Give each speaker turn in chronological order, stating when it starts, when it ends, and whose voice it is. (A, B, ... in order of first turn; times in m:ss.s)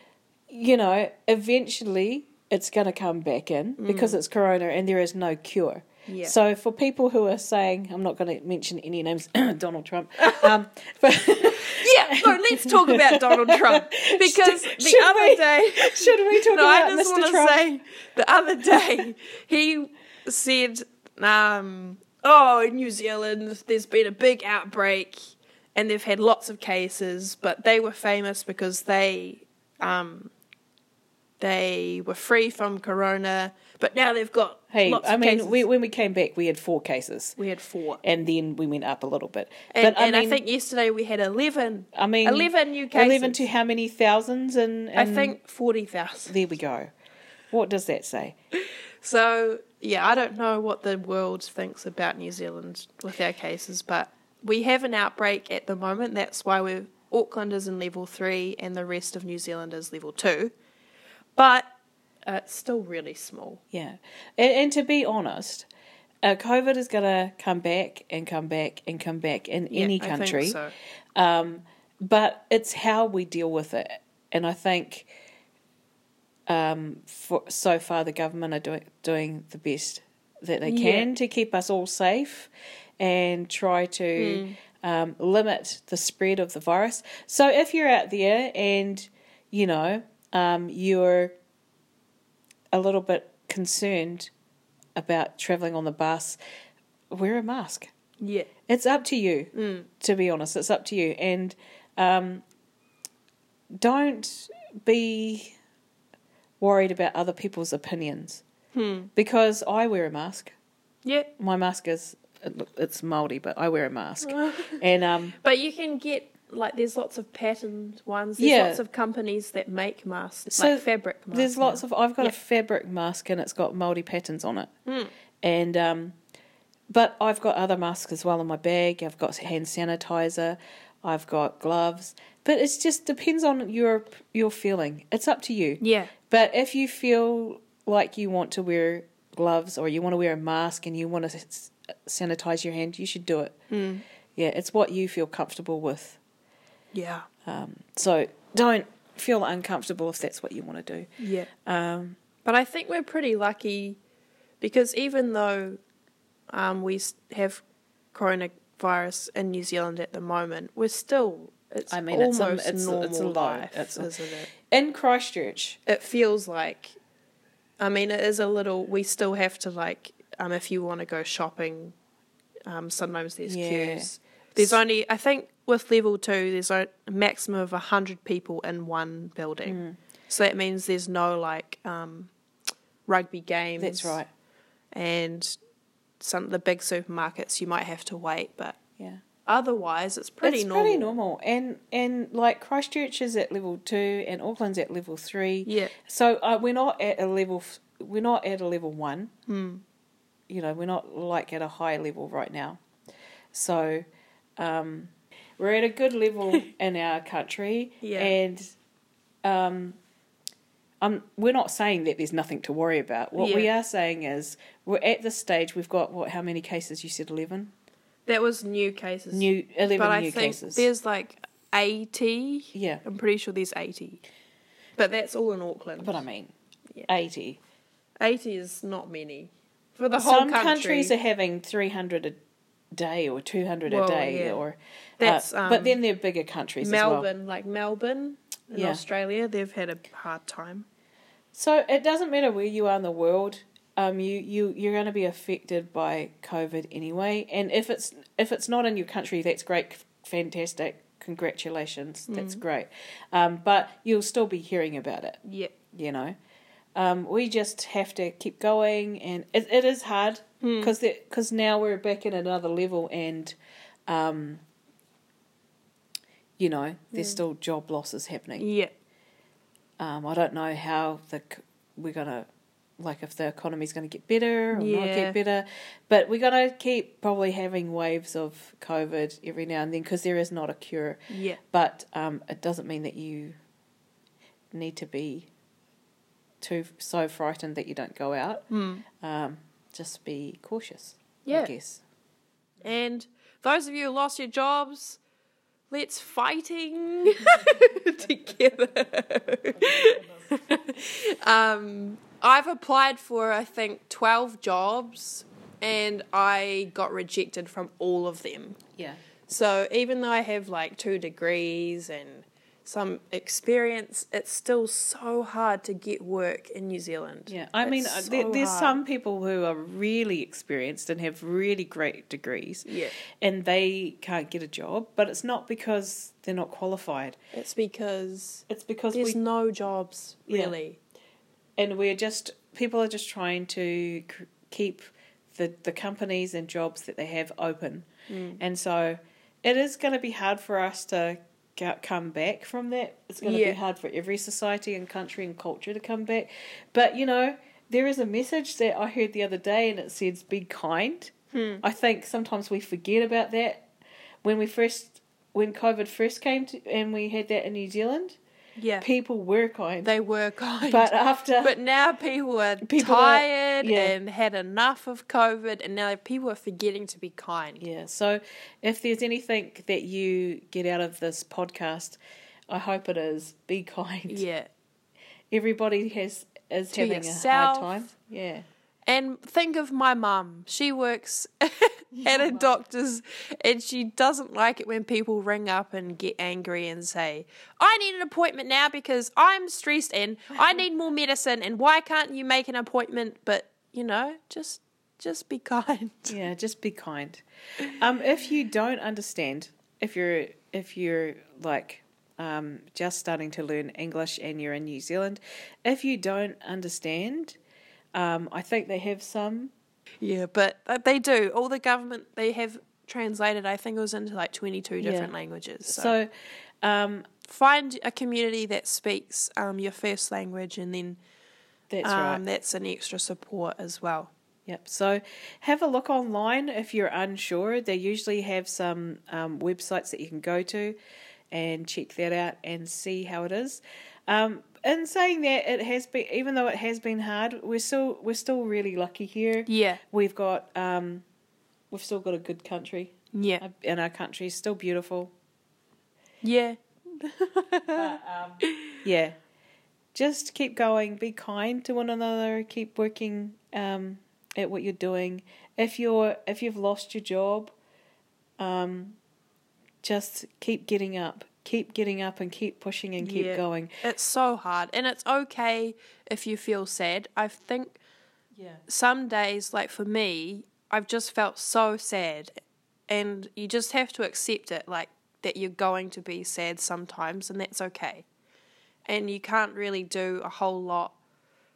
0:00.5-0:17.6 A
0:03.8-0:04.2 B
0:06.1-0:06.4 B
0:11.5-0:30.3 B
0:31.4-0:35.6 B
0:34.7-0:37.4 A
0:37.4-0:38.0 B
0:38.0-0:40.4 A
0:39.7-0:43.4 B
0:41.9-0:45.4 A
0:45.0-0:46.3 B
0:46.3-0:46.9 A
0:47.5-0:48.4 A
0:49.0-1:00.5 B
1:01.4-1:01.7 B
1:02.3-1:03.6 B
1:03.7-1:05.7 A
1:06.2-1:10.6 A
1:09.7-1:10.7 B
1:11.2-1:15.1 A
1:16.5-1:31.4 A
1:20.6-1:21.1 B
1:24.2-1:24.6 B
1:32.7-1:34.3 A
1:35.0-1:36.4 A
1:37.1-1:37.9 A
1:38.2-1:38.5 B
1:38.7-1:42.4 A
1:39.5-1:39.9 B
1:43.8-1:45.6 A
1:46.6-1:48.4 A
1:48.7-1:49.1 B
1:49.2-1:50.5 A
1:51.0-1:51.3 B
1:51.4-1:55.4 A
1:54.2-1:54.8 B
1:55.4-2:02.4 B
1:58.4-1:58.8 A
2:00.5-2:04.7 A
2:04.9-2:05.1 B
2:05.4-2:06.2 A
2:06.9-2:23.6 A
2:15.8-2:16.1 B
2:23.7-2:24.0 B
2:24.4-2:26.2 A
2:26.9-2:27.3 B
2:27.4-2:32.2 A
2:31.2-2:31.5 B
2:32.4-2:34.0 B
2:34.6-2:35.8 B
2:36.5-2:37.6 B
2:38.1-2:44.5 B
2:41.9-2:45.8 A
2:45.9-2:47.0 B
2:47.8-2:52.0 B
2:52.6-3:02.3 B
2:53.4-2:54.8 A
2:59.6-3:00.0 A
3:03.1-3:04.2 B
3:03.8-3:04.3 A
3:04.9-3:05.6 B
3:06.2-3:08.8 B
3:09.5-3:11.2 B
3:10.4-3:19.3 A
3:15.6-3:15.9 B
3:19.5-3:19.8 B
3:20.5-3:22.8 A
3:23.5-3:24.1 A
3:24.6-3:28.8 A
3:28.0-3:28.4 B
3:29.4-3:30.0 A
3:31.0-3:37.7 A
3:33.4-3:33.7 B
3:38.3-3:44.2 B
3:39.3-3:40.9 A
3:42.7-3:43.0 A
3:45.0-3:46.2 B
3:46.0-3:46.5 A
3:47.1-3:47.6 A
3:48.2-3:51.1 B
3:50.1-3:52.4 A
3:52.9-3:57.3 A
3:53.9-3:54.6 B
3:55.2-3:56.0 B
3:56.8-4:00.9 B
3:58.7-3:59.0 A
4:01.5-4:15.4 A
4:12.3-4:12.6 B
4:15.4-4:15.7 B
4:15.9-4:16.4 A
4:17.0-4:23.6 A
4:20.6-4:20.9 B
4:24.1-4:24.6 A
4:26.6-4:28.7 A
4:27.1-4:27.4 B
4:28.6-4:28.9 B
4:30.0-4:43.6 A
4:34.7-4:35.4 B
4:41.3-4:41.6 B
4:44.7-4:45.5 A
4:46.6-4:52.0 A
4:48.7-4:49.0 B
4:51.4-4:51.7 B
4:52.8-4:55.2 B
4:55.9-5:08.8 B
5:09.5-5:19.0 B
5:17.5-5:27.4 A
5:22.9-5:23.2 B
5:27.5-5:31.0 B
5:28.7-5:29.4 A
5:30.5-5:30.7 A
5:31.8-5:38.1 A
5:38.3-5:38.6 B
5:38.6-5:53.9 A
5:43.4-5:43.8 B
5:51.5-5:51.8 B
5:54.4-5:58.4 A
5:58.8-5:59.1 B
5:59.0-6:00.1 A
6:00.0-6:07.8 B
6:00.8-6:01.8 A
6:02.8-6:04.1 A
6:07.8-6:14.4 A
6:14.3-6:14.7 B
6:15.5-6:18.7 A
6:16.9-6:18.0 B
6:19.1-6:36.4 B
6:22.2-6:22.7 A
6:36.3-6:47.6 A
6:48.1-6:49.7 A
6:50.2-6:56.1 B
6:55.0-6:55.3 A
6:55.8-6:56.3 A
6:56.8-6:57.3 A
6:57.4-7:01.2 B
7:01.9-7:02.4 A
7:02.0-7:04.3 B
7:04.7-7:11.0 A
7:11.5-7:21.2 A
7:19.7-7:20.0 B
7:21.9-7:25.3 A
7:23.3-7:23.6 B
7:26.4-7:28.1 B
7:28.0-7:29.4 A
7:28.6-7:29.0 B
7:30.1-7:37.7 A
7:38.6-7:39.2 A
7:40.0-7:43.9 A
7:43.2-7:48.0 B
7:48.6-7:48.8 A
7:48.9-7:52.5 B
7:53.1-7:58.3 B
7:59.1-8:01.1 B